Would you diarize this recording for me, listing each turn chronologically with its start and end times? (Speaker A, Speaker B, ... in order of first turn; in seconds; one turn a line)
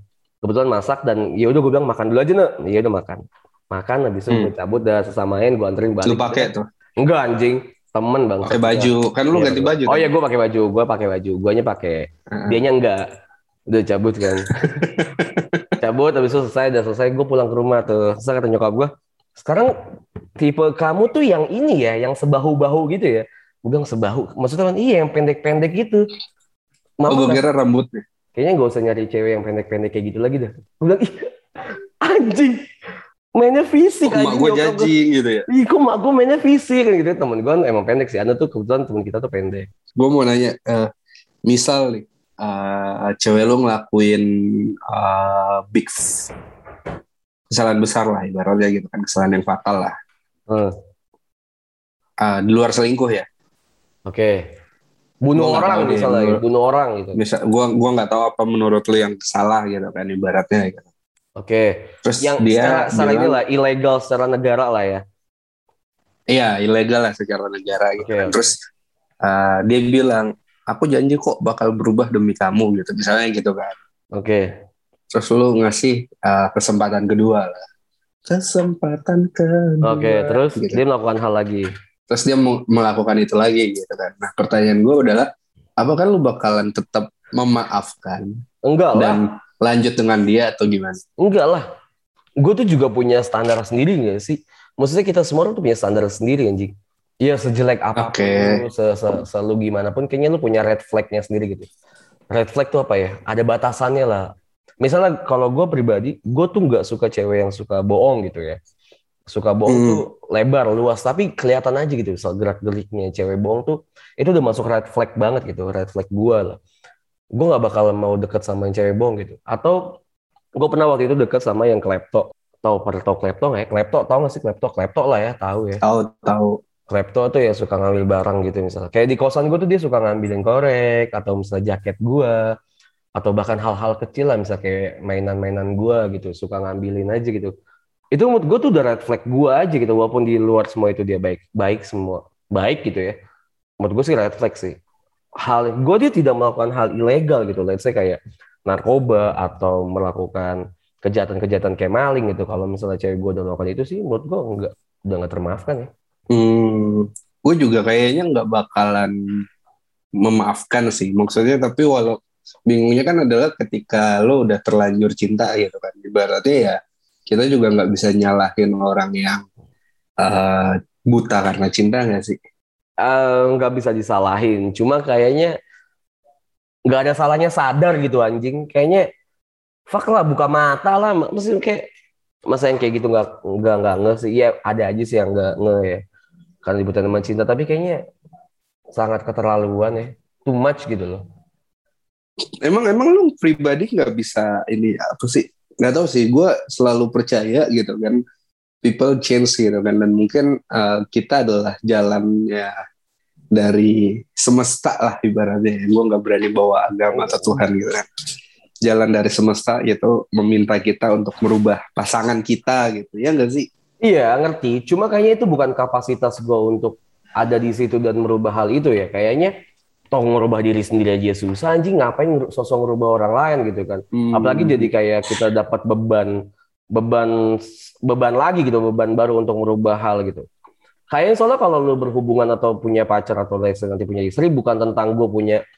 Speaker A: 0.4-6.5
Speaker B: 6.0-6.7
Speaker A: 7.0-13.0
Speaker B: 8.4-10.1
Speaker B: 12.3-12.6
Speaker A: 13.7-14.6
Speaker B: 14.4-15.7
Speaker A: 15.8-19.7
Speaker A: 20.4-26.0
Speaker A: 27.0-27.4
Speaker B: 27.1-28.0
Speaker A: 28.4-31.3
Speaker A: 32.0-32.6
Speaker A: 33.4-34.9
Speaker B: 34.1-35.5
Speaker A: 35.5-39.7
Speaker B: 40.0-40.9
Speaker B: 41.5-46.3
Speaker B: 47.5-49.9
Speaker B: 52.2-53.3
Speaker A: 54.1-54.5
Speaker A: 55.2-57.2
Speaker B: 55.4-56.4
Speaker B: 57.1-60.9
Speaker A: 61.4-65.0
Speaker B: 62.0-63.4
Speaker B: 66.3-68.5
Speaker A: 68.0-68.5
Speaker B: 69.2-73.8
Speaker A: 74.1-74.5
Speaker B: 75.1-77.6
Speaker B: 78.3-80.8
Speaker A: 79.8-81.7
Speaker B: 82.1-88.4
Speaker A: 88.7-89.2
Speaker B: 89.0-91.0
Speaker A: 91.2-91.7
Speaker A: 92.4-101.7
Speaker B: 98.0-98.6
Speaker A: 102.3-104.3
Speaker A: 104.8-108.6
Speaker A: 109.3-116.6
Speaker B: 109.7-110.0
Speaker A: 117.4-120.0
Speaker A: 120.6-125.8
Speaker B: 125.8-126.6
Speaker A: 126.9-132.4
Speaker A: 133.2-137.5
Speaker A: 138.1-143.2
Speaker A: 143.8-144.8
Speaker A: 145.4-155.9
Speaker B: 156.3-159.4
Speaker B: 160.2-169.4
Speaker B: 170.2-172.4
Speaker A: 173.0-175.5
Speaker A: 176.9-179.1
Speaker A: 179.9-181.8
Speaker A: 182.5-186.0
Speaker A: 186.6-188.0
Speaker A: 189.0-191.2
Speaker B: 192.6-198.2
Speaker B: 198.8-202.8
Speaker B: 203.5-208.1
Speaker A: 207.1-207.6
Speaker B: 208.8-213.7
Speaker A: 214.0-219.5
Speaker A: 220.1-226.4
Speaker B: 224.1-224.9
Speaker A: 226.9-230.5
Speaker A: 231.1-235.6